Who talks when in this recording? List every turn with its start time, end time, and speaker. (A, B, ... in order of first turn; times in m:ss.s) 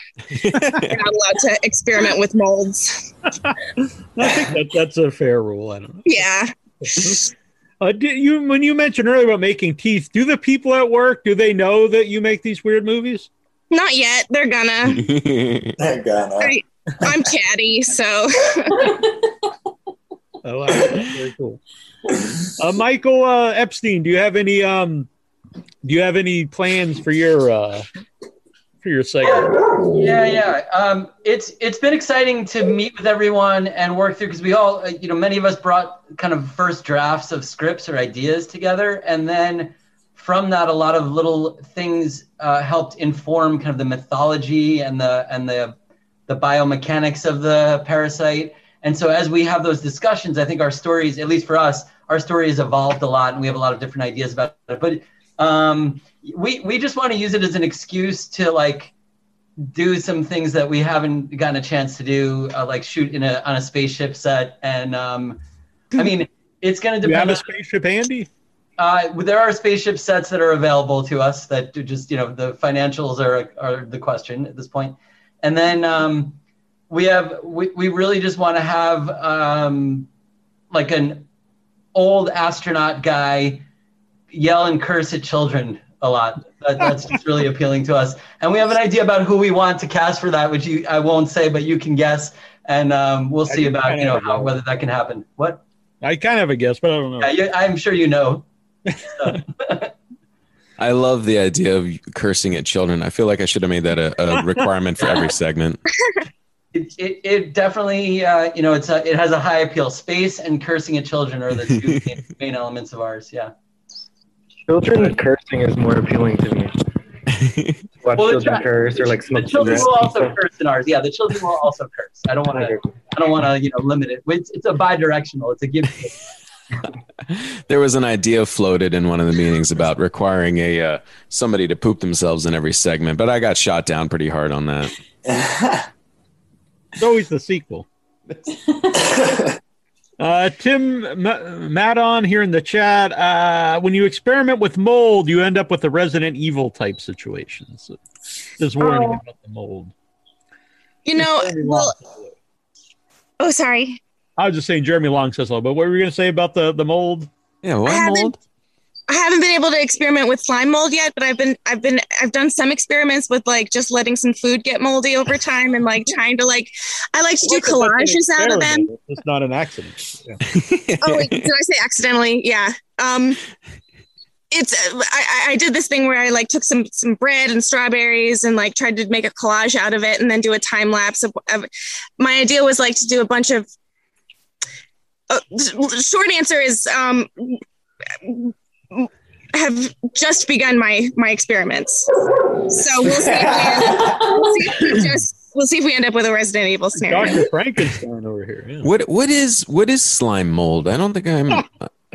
0:00.4-0:01.0 A
0:00.6-0:03.1 B
0:04.2-0:06.3 C
0:06.0-0:07.1 B
0:06.8-0:13.3 C
0:13.7-0:15.0 B
0:14.8-0:15.8 A
0:15.8-0:16.6 D
0:16.4-0:18.9 B
0:20.4-0:21.6 C
0:22.6-0:25.1 C
0:25.8-0:27.9 C
0:28.8-0:29.4 C
0:29.2-0:45.7 E
0:46.3-0:58.9 E
0:59.6-1:05.4 E
1:06.0-1:07.5 E
1:07.0-1:08.3 C
1:08.8-1:16.4 E
1:16.9-1:20.1 E
1:20.7-1:21.2 E
1:21.9-1:23.6 E
1:24.3-1:35.6 E
1:33.5-1:34.5 C
1:36.0-1:37.3 C
1:37.2-1:38.4 E
1:39.0-1:39.9 E
1:40.8-1:45.8 A
1:46.7-1:53.5 E
1:54.7-1:56.7 F
1:57.3-1:57.8 A
1:58.0-2:00.3 F
1:58.2-2:06.2 E
2:02.5-2:02.8 F
2:07.3-2:15.0 A
2:15.2-2:15.9 D
2:17.0-2:17.9 C
2:19.0-2:19.5 D
2:20.2-2:28.0 C
2:28.6-2:29.9 C
2:28.8-2:29.2 B
2:31.0-2:32.0 B
2:31.2-2:32.3 C
2:33.4-2:34.0 B
2:34.4-2:37.3 C
2:37.6-2:38.4 A
2:37.8-2:38.3 B
2:39.1-2:48.9 B
2:47.4-2:50.4 C
2:50.4-2:51.5 A
2:51.0-2:53.4 B
2:54.5-3:03.7 B
3:05.3-3:07.6 B
3:08.2-3:17.4 B
3:13.0-3:14.3 D
3:14.9-3:15.2 C
3:16.9-3:18.9 C
3:18.8-3:21.8 A